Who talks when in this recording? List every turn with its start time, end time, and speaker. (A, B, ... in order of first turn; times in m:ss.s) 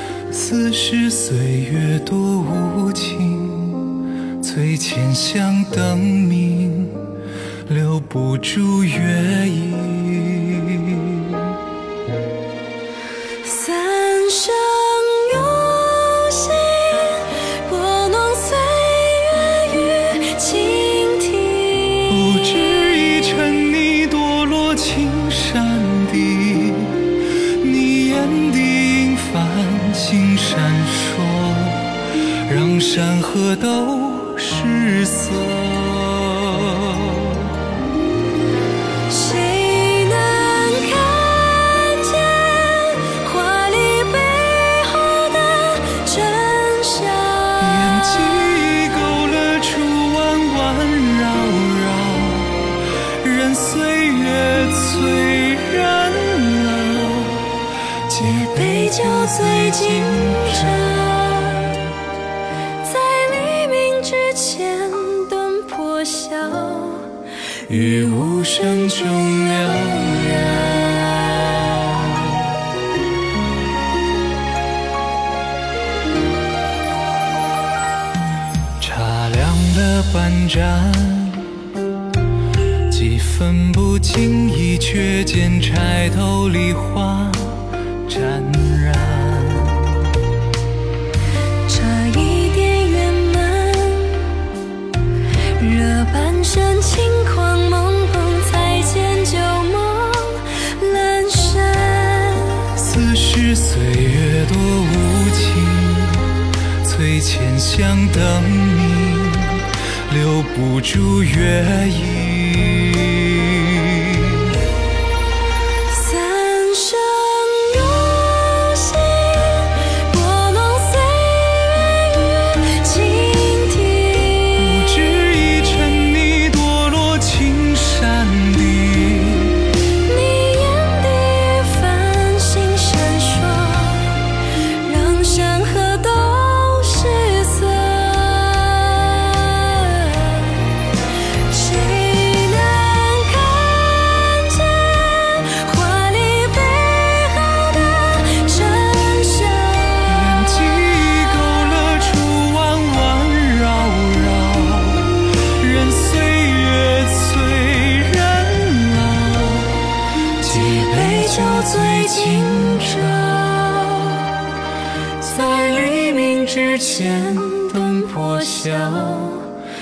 0:00.3-0:07.1 A
0:07.7-0:11.6 A
0:13.4-0:22.2 B
0:22.1-0:27.1 A
0:27.6-0:32.0 A
0:32.5-0:37.5 A
0:39.1-0:48.2 B
0:47.6-1:01.0 A
0:58.2-1:01.6 B
1:02.8-1:07.1 B
1:07.7-1:12.0 A
1:07.7-1:10.8 B
1:18.8-1:21.5 A
1:22.9-1:30.0 A
1:31.7-1:34.2 B
1:35.6-1:42.5 B
1:42.8-1:46.3 A
1:46.8-1:54.4 A
1:55.9-2:05.0 B
2:04.6-2:09.6 A
2:10.1-2:14.3 B
2:14.8-2:20.6 B
2:21.5-2:30.4 B
2:30.1-2:39.8 A
2:40.4-2:43.8 A
2:40.4-2:42.7 B
2:45.2-2:49.5 B
2:45.7-2:49.4 A